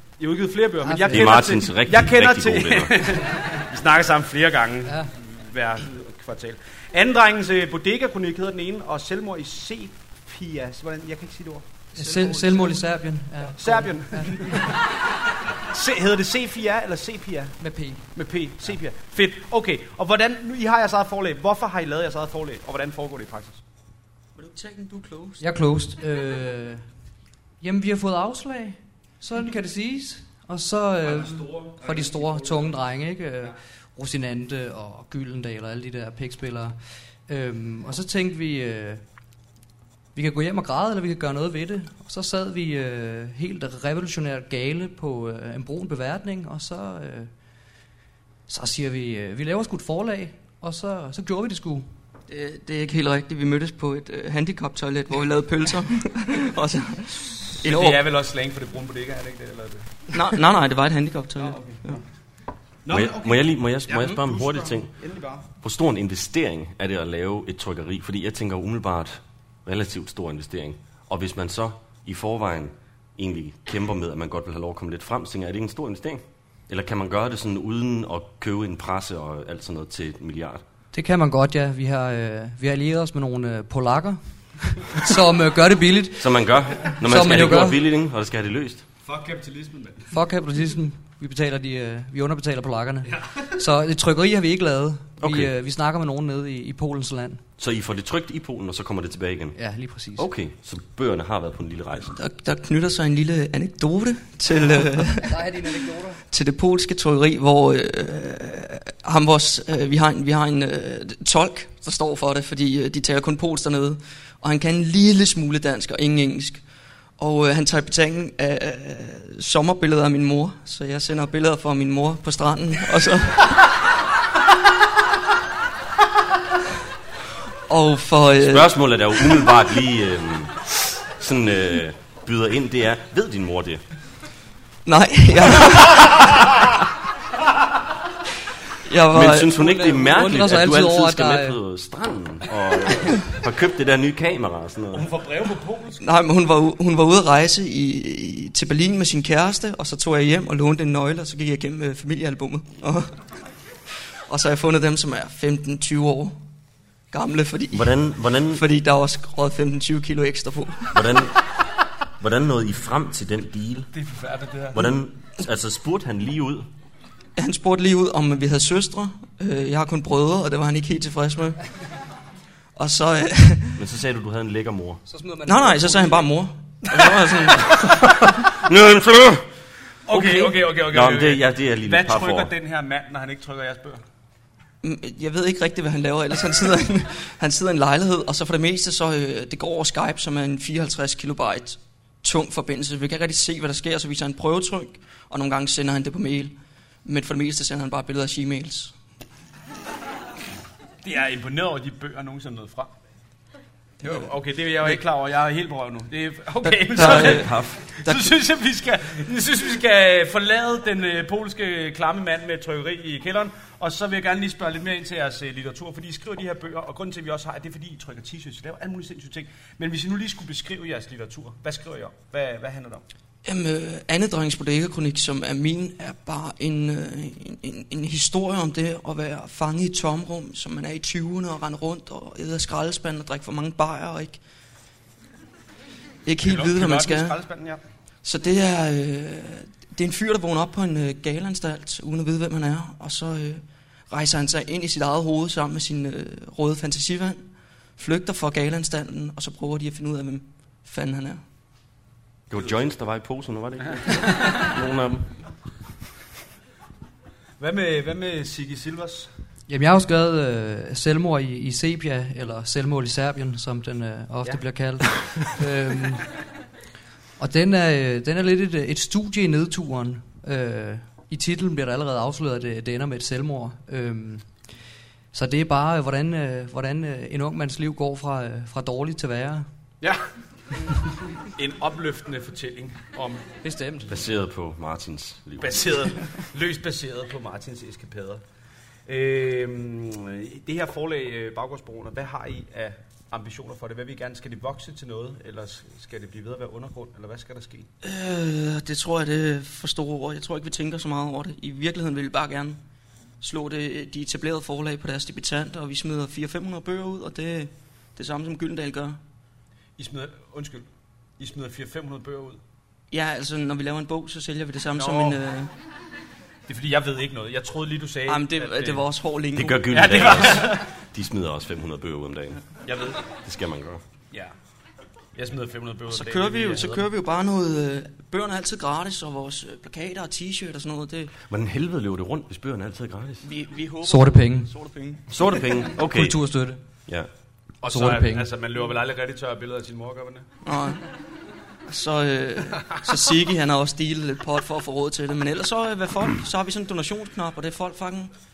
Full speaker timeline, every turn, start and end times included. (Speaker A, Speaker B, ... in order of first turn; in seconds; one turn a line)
Speaker A: 0.2-11.7
Speaker B: 0.8-1.4
Speaker C: 1.1-3.1
Speaker B: 11.9-14.8
Speaker D: 12.0-12.7
Speaker A: 13.6-14.8
Speaker A: 15.6-17.6
Speaker B: 17.6-18.1
Speaker A: 18.1-23.6
Speaker D: 24.4-25.5
Speaker B: 25.4-26.9
Speaker B: 27.6-39.0
Speaker A: 31.1-32.7
Speaker B: 40.1-47.3
Speaker B: 48.5-51.9
Speaker D: 52.3-58.0
Speaker A: 57.5-60.2
Speaker D: 60.1-62.0
Speaker A: 61.4-62.0
Speaker A: 62.9-65.5
Speaker C: 62.9-64.9
Speaker C: 65.6-80.6
Speaker B: 80.9-87.8
Speaker C: 86.2-88.8
Speaker A: 89.0-90.1
Speaker B: 90.1-97.4
Speaker C: 95.2-95.5
Speaker C: 97.6-99.6
Speaker B: 99.5-100.3
Speaker C: 100.2-102.2
Speaker D: 102.1-116.6
Speaker B: 105.3-106.2
Speaker D: 117.2-123.8
Speaker D: 127.7-128.8
Speaker C: 128.4-133.8
Speaker D: 134.9-136.7
Speaker D: 138.8-139.6
Speaker C: 139.1-145.1
Speaker B: 139.5-141.6
Speaker A: 144.9-146.0
Speaker D: 146.0-153.2
Speaker D: 154.3-156.4
Speaker D: 157.1-161.2
Speaker C: 157.7-158.6
Speaker C: 160.9-161.4
Speaker C: 162.2-163.9
Speaker A: 163.9-164.9
Speaker C: 164.7-166.7
Speaker D: 167.4-171.6
Speaker D: 172.8-173.8
Speaker C: 173.8-175.0
Speaker B: 175.1-176.3
Speaker D: 175.4-177.8
Speaker C: 177.7-179.5
Speaker A: 180.1-184.0
Speaker C: 180.1-182.5
Speaker D: 184.8-198.9
Speaker A: 201.0-202.9
Speaker A: 204.0-223.0
Speaker D: 206.7-208.3
Speaker C: 207.0-207.8
Speaker D: 223.4-234.4
Speaker D: 236.3-237.4
Speaker A: 236.4-237.8
Speaker D: 238.2-247.4
Speaker D: 248.0-251.4
Speaker C: 252.5-255.4
Speaker A: 254.1-254.7
Speaker A: 257.6-259.3
Speaker B: 259.7-266.3
Speaker B: 267.4-274.5
Speaker B: 275.3-279.7
Speaker A: 281.4-283.5
Speaker B: 283.6-284.1
Speaker C: 284.1-286.1
Speaker A: 285.6-288.4
Speaker A: 289.1-297.9
Speaker D: 298.0-302.8
Speaker D: 303.4-309.2
Speaker A: 310.0-310.9
Speaker A: 311.4-312.6
Speaker D: 313.1-315.7
Speaker A: 315.0-315.4
Speaker A: 316.7-319.0
Speaker D: 318.3-320.4
Speaker C: 319.6-322.6
Speaker A: 319.9-320.9
Speaker A: 322.9-323.2
Speaker C: 323.4-324.0
Speaker A: 325.4-327.1
Speaker D: 326.1-331.3
Speaker C: 331.5-333.5
Speaker D: 333.4-335.5
Speaker B: 334.1-334.7
Speaker C: 335.3-336.4
Speaker B: 335.9-336.8
Speaker A: 337.8-340.5
Speaker B: 337.8-338.5
Speaker D: 340.6-341.0
Speaker D: 341.9-348.3